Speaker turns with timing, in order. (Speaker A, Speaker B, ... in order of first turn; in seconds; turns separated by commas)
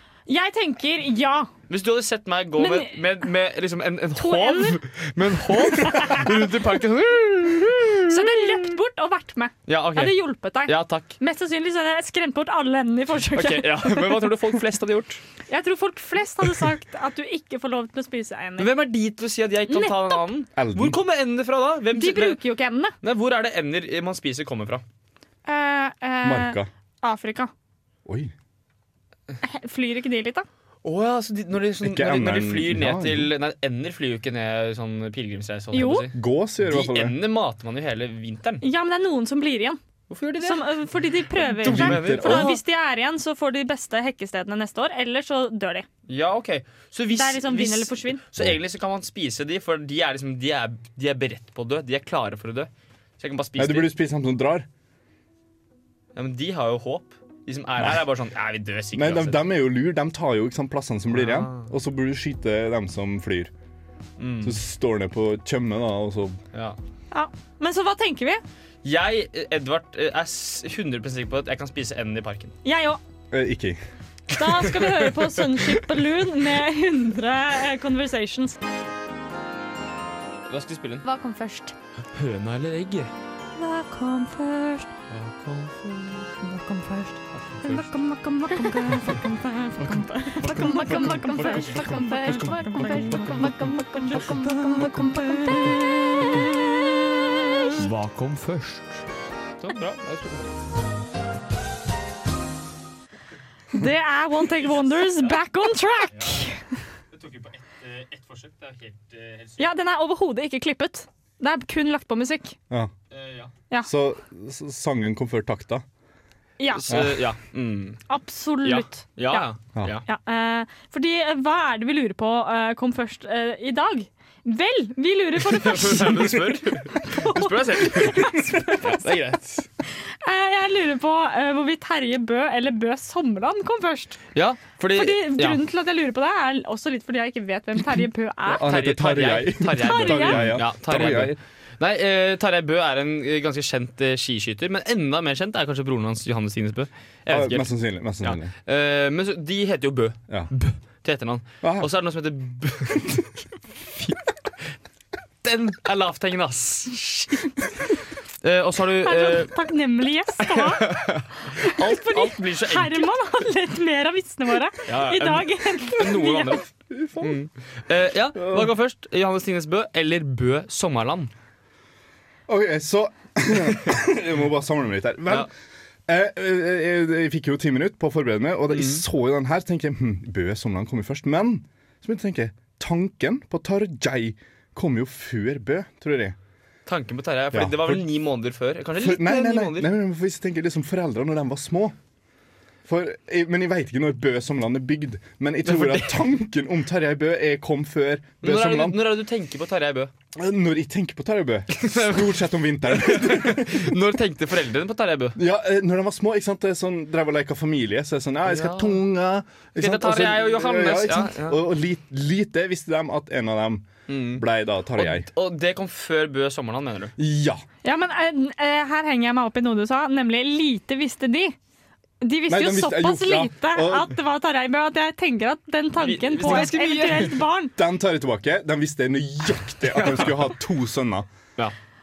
Speaker A: 0.3-1.5, Speaker B: 1.7-8.5, Speaker A: 2.6-2.9, Speaker A: 4.2-4.8, Speaker A: 5.8-6.2, Speaker A: 8.1-14.3, Speaker B: 9.7-11.2, Speaker B: 13.3-15.2, Speaker A: 15.5-18.7, Speaker B: 18.6-22.4, Speaker A: 19.7-20.2, Speaker C: 20.6-21.0, Speaker A: 21.9-22.9, Speaker B: 23.0-24.8, Speaker A: 25.4-27.5, Speaker C: 26.2-26.7, Speaker C: 28.1-28.3, Speaker A: 29.4-30.5, Speaker B: 30.8-38.6, Speaker C: 31.8-33.3, Speaker A: 35.7-36.1, Speaker C: 36.1-37.2, Speaker A: 38.6-39.8, Speaker B: 40.1-40.8, Speaker A: 40.4-45.9, Speaker B: 41.4-42.6, Speaker C: 41.6-42.6, Speaker B: 46.1-53.9, Speaker A: 47.1-48.2, Speaker C: 53.5-54.7, Speaker B: 56.1-59.4, Speaker C: 58.9-63.5, Speaker B: 61.1-61.7, Speaker B: 64.2-64.6, Speaker C: 64.4-66.4, Speaker A: 67.1-68.4, Speaker B: 68.8-72.5, Speaker A: 72.6-73.0, Speaker C: 73.3-73.8, Speaker B: 74.3-75.8, Speaker A: 74.3-78.6, Speaker B: 80.5-81.0, Speaker A: 81.0-81.7, Speaker B: 82.1-83.1, Speaker A: 83.6-84.9, Speaker B: 85.1-86.4, Speaker A: 86.4-97.8, Speaker B: 87.3-87.9, Speaker B: 88.8-89.2, Speaker B: 89.8-96.3, Speaker B: 97.7-99.0, Speaker B: 99.6-100.5, Speaker A: 103.7-106.7, Speaker B: 107.1-109.7, Speaker A: 109.6-112.5, Speaker B: 113.1-113.5, Speaker C: 113.8-115.8, Speaker B: 116.7-118.0, Speaker C: 116.9-117.2, Speaker A: 118.1-119.5, Speaker B: 118.6-120.0, Speaker A: 120.0-129.1, Speaker B: 125.4-129.7, Speaker A: 129.9-134.2, Speaker B: 134.3-135.6, Speaker A: 134.9-138.7, Speaker C: 138.4-141.3, Speaker B: 138.6-153.2, Speaker A: 139.7-140.6, Speaker C: 147.3-148.5, Speaker C: 151.6-151.9, Speaker B: 155.4-157.5, Speaker B: 158.4-159.5, Speaker A: 159.0-166.6, Speaker B: 160.4-163.1, Speaker B: 164.9-171.3, Speaker C: 166.9-167.4, Speaker C: 168.3-168.7, Speaker C: 172.5-175.5, Speaker C: 176.1-186.3, Speaker B: 178.7-179.0, Speaker B: 186.9-189.9, Speaker C: 187.5-188.0, Speaker C: 189.0-191.9, Speaker C: 192.8-199.0, Speaker B: 195.6-196.2, Speaker B: 198.4-200.1, Speaker C: 200.3-204.0, Speaker B: 201.7-205.4, Speaker C: 205.3-215.3, Speaker B: 208.4-209.0, Speaker B: 209.8-211.6, Speaker B: 214.1-214.4, Speaker B: 215.0-217.1, Speaker C: 217.2-217.6, Speaker A: 217.8-221.6, Speaker A: 222.2-227.7, Speaker C: 222.5-224.1, Speaker B: 226.0-227.5, Speaker C: 227.8-231.3, Speaker B: 229.9-230.5